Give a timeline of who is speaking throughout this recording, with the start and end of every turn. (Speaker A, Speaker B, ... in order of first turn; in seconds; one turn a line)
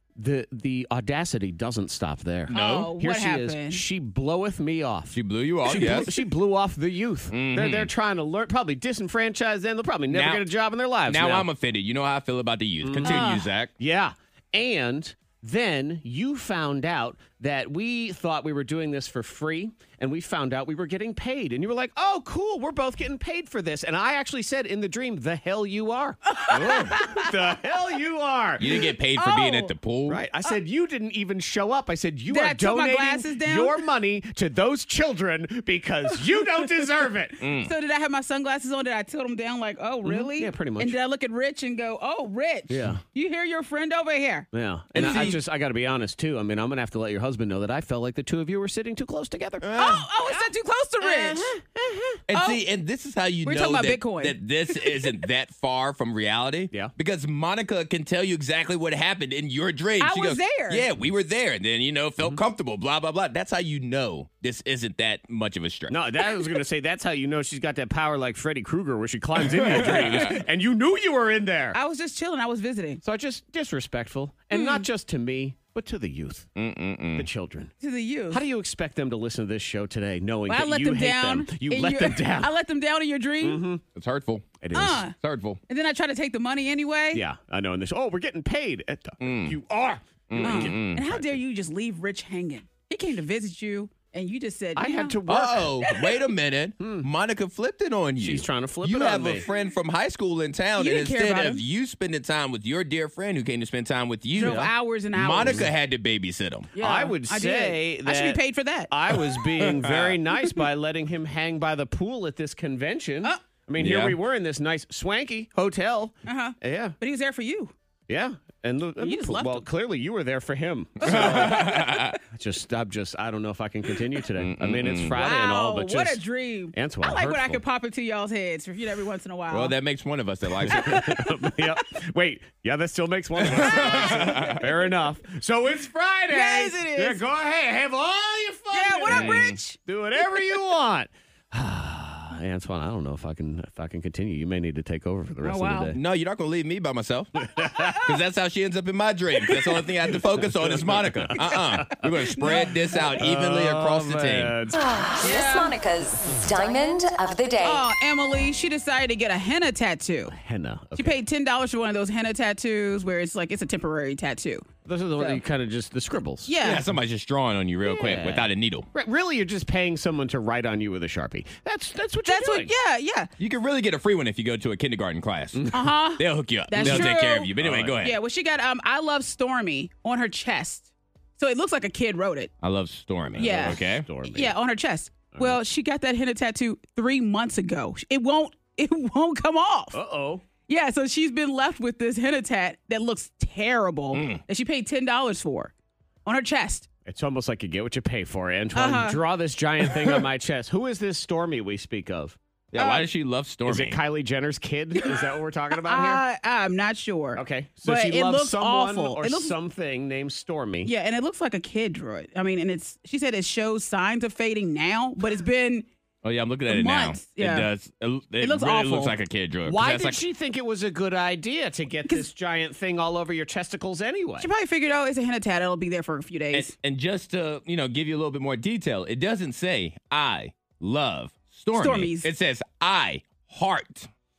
Speaker A: 0.2-11.5
Speaker B: 2.5-2.9
Speaker C: 2.5-3.8
Speaker B: 5.1-6.2
Speaker B: 7.3-7.9
Speaker B: 10.1-10.4
Speaker B: 11.1-13.7
Speaker A: 12.8-13.2
Speaker C: 13.0-13.4
Speaker A: 13.8-28.9
Speaker C: 26.3-27.3
Speaker B: 26.5-27.0
Speaker B: 28.6-30.2
Speaker C: 29.1-29.7
Speaker A: 30.1-37.4
Speaker C: 32.3-33.8
Speaker B: 37.4-37.7
Speaker C: 37.5-45.3
Speaker A: 40.0-41.0
Speaker A: 42.7-43.0
Speaker A: 44.5-49.7
Speaker B: 44.9-45.4
Speaker B: 49.6-50.1
Speaker C: 49.8-51.5
Speaker A: 51.0-52.2
Speaker B: 52.3-66.0
Speaker C: 52.3-52.6
Speaker C: 53.4-55.1
Speaker C: 60.0-60.8
Speaker A: 65.9-71.8
Speaker B: 69.5-70.4
Speaker C: 69.9-70.2
Speaker C: 71.7-73.0
Speaker A: 73.0-76.5
Speaker C: 74.5-74.9
Speaker B: 76.5-77.3
Speaker A: 77.2-77.7
Speaker C: 77.8-78.4
Speaker A: 78.3-82.5
Speaker C: 80.5-83.6
Speaker A: 83.4-83.8
Speaker B: 83.9-85.6
Speaker A: 84.6-85.0
Speaker C: 84.7-85.1
Speaker C: 85.7-87.2
Speaker A: 87.1-90.8
Speaker B: 89.2-89.6
Speaker B: 90.3-91.2
Speaker C: 90.4-95.2
Speaker A: 94.8-95.8
Speaker B: 95.3-106.7
Speaker C: 95.8-96.1
Speaker A: 96.8-97.1
Speaker A: 98.2-99.4
Speaker C: 100.8-101.6
Speaker C: 104.3-105.6
Speaker A: 104.4-104.7
Speaker C: 106.8-108.9
Speaker A: 106.8-117.0
Speaker B: 109.6-110.2
Speaker B: 113.8-114.2
Speaker C: 116.2-117.7
Speaker A: 118.1-126.2
Speaker C: 119.0-119.6
Speaker C: 121.0-121.8
Speaker B: 121.0-122.2
Speaker B: 124.3-125.2
Speaker C: 125.1-129.7
Speaker A: 126.7-127.6
Speaker B: 129.5-131.3
Speaker A: 130.7-146.0
Speaker B: 133.4-134.6
Speaker C: 133.7-134.5
Speaker C: 136.3-137.2
Speaker C: 138.7-139.8
Speaker B: 139.1-139.6
Speaker C: 145.4-145.9
Speaker B: 145.9-154.6
Speaker A: 147.5-147.8
Speaker C: 147.6-148.0
Speaker A: 150.1-154.8
Speaker C: 152.3-152.7
Speaker D: 154.7-157.8
Speaker C: 155.2-155.7
Speaker C: 157.6-160.3
Speaker A: 160.3-161.2
Speaker C: 161.0-164.7
Speaker A: 164.8-166.6
Speaker C: 166.5-166.8
Speaker B: 166.6-168.9
Speaker A: 168.0-172.7
Speaker C: 172.3-173.3
Speaker B: 173.4-178.2
Speaker A: 175.5-175.8
Speaker C: 175.7-182.5
Speaker A: 176.8-178.0
Speaker B: 182.6-184.1
Speaker A: 183.3-184.5
Speaker C: 183.4-190.0
Speaker A: 185.3-185.6
Speaker A: 189.9-190.4
Speaker C: 190.7-195.7
Speaker B: 194.1-194.4
Speaker C: 196.2-196.8
Speaker A: 197.1-202.4
Speaker C: 198.7-199.2
Speaker B: 202.7-204.0
Speaker C: 202.8-203.1
Speaker A: 203.7-206.2
Speaker C: 205.8-209.5
Speaker A: 207.3-210.9
Speaker C: 210.8-215.8
Speaker B: 216.2-220.2
Speaker C: 216.7-217.7
Speaker C: 218.4-219.2
Speaker A: 219.7-224.5
Speaker C: 224.4-226.7
Speaker B: 226.5-234.1
Speaker C: 231.7-232.3